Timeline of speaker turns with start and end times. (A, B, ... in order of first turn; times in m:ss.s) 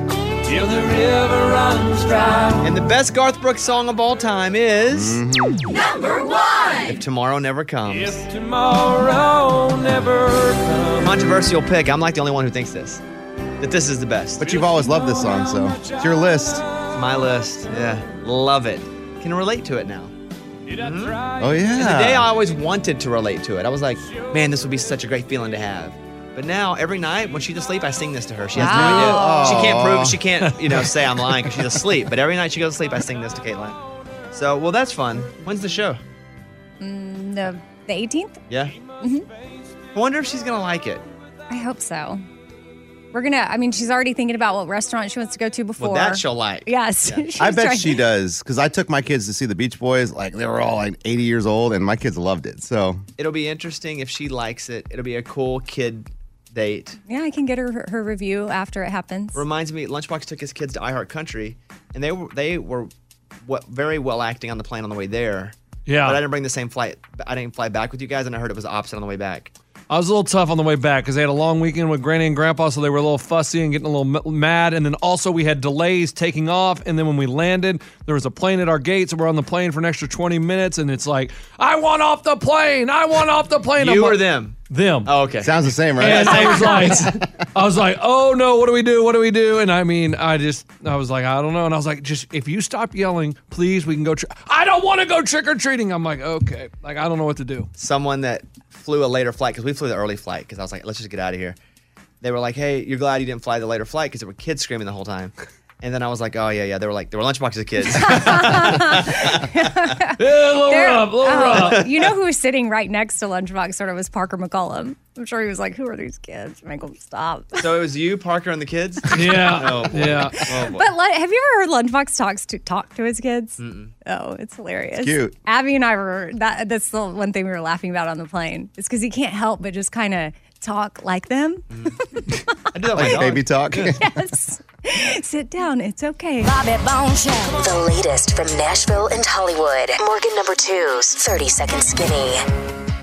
0:00.5-0:02.6 A
0:02.6-0:05.2 B
0:04.9-0:05.7 C
0:06.8-0:08.3 B
0:08.4-0:10.8 A
0:10.9-0:13.0 B
0:13.6-0:14.5 B
0:14.4-0:16.6 C
0:16.9-0:20.1 B
0:20.7-0:21.2 B
0:21.4-0:22.3 C
0:21.8-0:33.8 B
0:28.6-0:29.6 D
0:28.6-0:30.2 C
0:34.3-0:36.0 B
0:36.8-0:38.4 D
0:39.0-0:39.3 D
0:39.9-0:41.0 B
0:41.5-0:42.2 D
0:43.1-0:48.0 D
0:45.8-0:47.2 B
0:47.4-0:53.0 C
0:53.2-0:57.0 B
0:57.1-0:59.4 D
0:59.3-1:02.9 B
1:03.4-1:09.5 B
1:05.9-1:06.2 E
1:09.9-1:25.1 E
1:23.8-1:26.8 B
1:25.4-1:27.2 C
1:26.0-1:37.7 E
1:37.8-1:41.6 B
1:42.2-1:49.7 B
1:47.9-1:57.6 D
1:50.2-1:51.9 E
1:51.3-1:52.0 B
1:57.6-2:00.9 B
1:59.1-2:00.5 E
2:00.7-2:12.4 D
2:03.6-2:03.9 B
2:05.0-2:05.4 C
2:12.7-2:14.0 B
2:12.9-2:14.0 C
2:14.0-2:16.5 D
2:16.4-2:22.4 F